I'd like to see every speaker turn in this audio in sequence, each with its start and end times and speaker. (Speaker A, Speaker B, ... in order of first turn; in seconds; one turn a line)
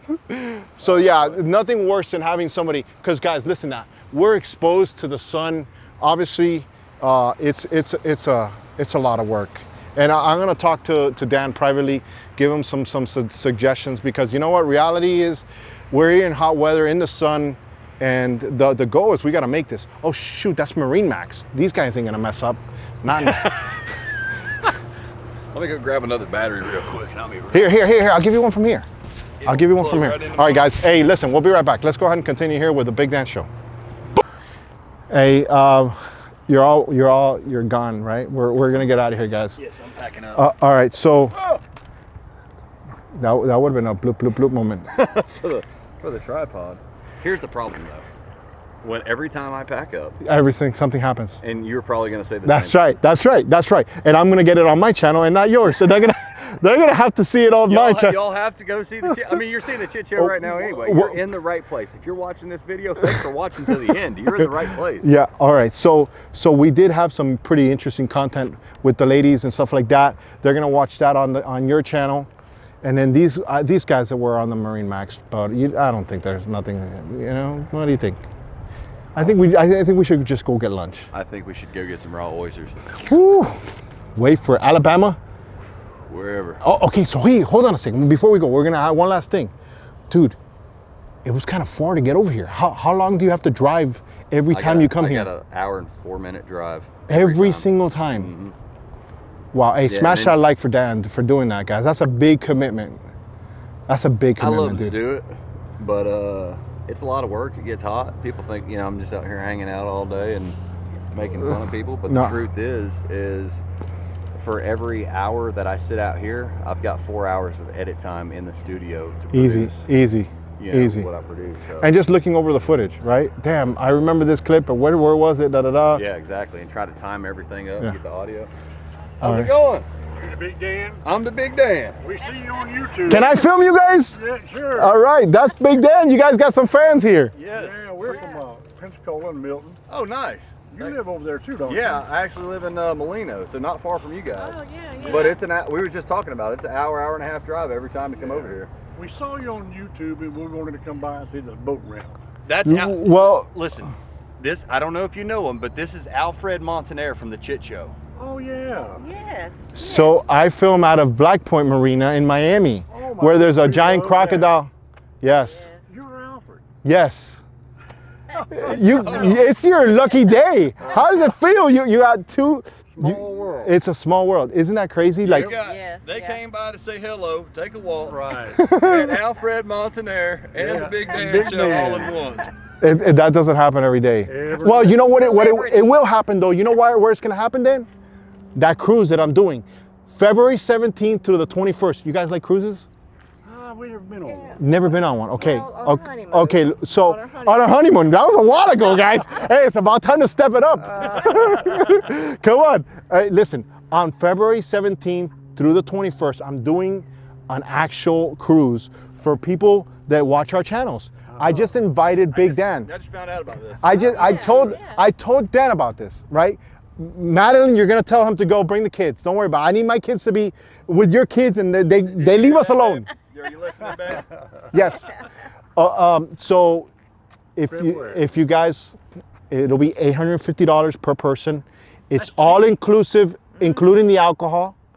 Speaker A: 0.1-23.4
Speaker B: 0.8-1.4
Speaker B: 23.1-23.8
Speaker B: 25.5-27.7
Speaker A: 27.5-28.9
Speaker B: 29.4-30.8
Speaker A: 29.4-33.5
Speaker A: 35.1-39.6
Speaker B: 39.5-40.5
Speaker A: 40.3-41.4
Speaker B: 41.3-41.6
Speaker A: 43.1-44.9
Speaker B: 44.9-48.0
Speaker B: 48.8-50.2
Speaker A: 50.2-51.4
Speaker B: 51.4-52.9
Speaker A: 52.4-58.2
Speaker B: 57.7-65.1
Speaker A: 60.2-61.2
Speaker A: 65.0-72.3
Speaker A: 72.8-78.2
Speaker A: 79.1-81.1
Speaker B: 81.1-83.0
Speaker A: 83.0-85.2
Speaker B: 86.1-86.6
Speaker A: 86.6-89.5
Speaker A: 90.1-90.4
Speaker A: 91.2-95.3
Speaker B: 94.5-98.5
Speaker A: 97.1-98.3
Speaker A: 99.5-103.0
Speaker B: 99.9-100.4
Speaker A: 103.9-105.0
Speaker B: 104.4-110.6
Speaker B: 111.1-113.6
Speaker A: 112.1-112.4
Speaker B: 114.3-119.9
Speaker A: 119.3-121.1
Speaker B: 120.6-121.9
Speaker A: 121.8-126.0
Speaker B: 125.9-128.5
Speaker A: 129.2-129.5
Speaker B: 129.2-129.9
Speaker C: 130.2-131.0
Speaker B: 131.0-132.0
Speaker C: 132.0-133.5
Speaker A: 133.0-134.2
Speaker C: 134.1-135.0
Speaker A: 134.7-137.3
Speaker B: 137.3-138.2
Speaker C: 137.4-139.8
Speaker D: 138.1-138.3
Speaker B: 139.9-141.0
Speaker C: 140.7-142.1
Speaker B: 141.7-148.7
Speaker D: 144.4-145.4
Speaker C: 145.0-145.3
Speaker C: 148.2-152.2
Speaker B: 152.4-157.9
Speaker A: 152.6-153.5
Speaker C: 158.2-159.1
Speaker D: 158.9-160.2
Speaker A: 159.7-165.7
Speaker C: 162.9-164.6
Speaker D: 165.2-165.8
Speaker C: 165.8-166.6
Speaker A: 166.8-167.4
Speaker D: 168.3-168.6
Speaker C: 168.3-169.3
Speaker A: 168.5-175.5
Speaker B: 168.7-169.5
Speaker D: 169.9-170.4
Speaker C: 170.8-171.1
Speaker B: 172.9-173.8
Speaker C: 175.2-175.6
Speaker B: 175.2-182.5
Speaker D: 175.5-176.4
Speaker C: 178.0-178.6
Speaker A: 178.6-179.1
Speaker C: 180.6-182.4
Speaker A: 182.8-187.9
Speaker C: 184.2-185.3
Speaker D: 185.1-186.0
Speaker A: 188.5-192.9
Speaker C: 193.4-194.6
Speaker D: 194.2-198.0
Speaker A: 194.6-212.9
Speaker D: 200.8-201.9
Speaker C: 211.3-211.7
Speaker B: 212.3-214.8
Speaker A: 213.8-223.1
Speaker D: 213.9-215.0
Speaker B: 222.0-224.9
Speaker A: 224.7-225.1
Speaker A: 225.8-226.9
Speaker A: 227.6-229.0
Speaker C: 227.7-228.3
Speaker A: 229.5-234.8
Speaker B: 232.2-232.7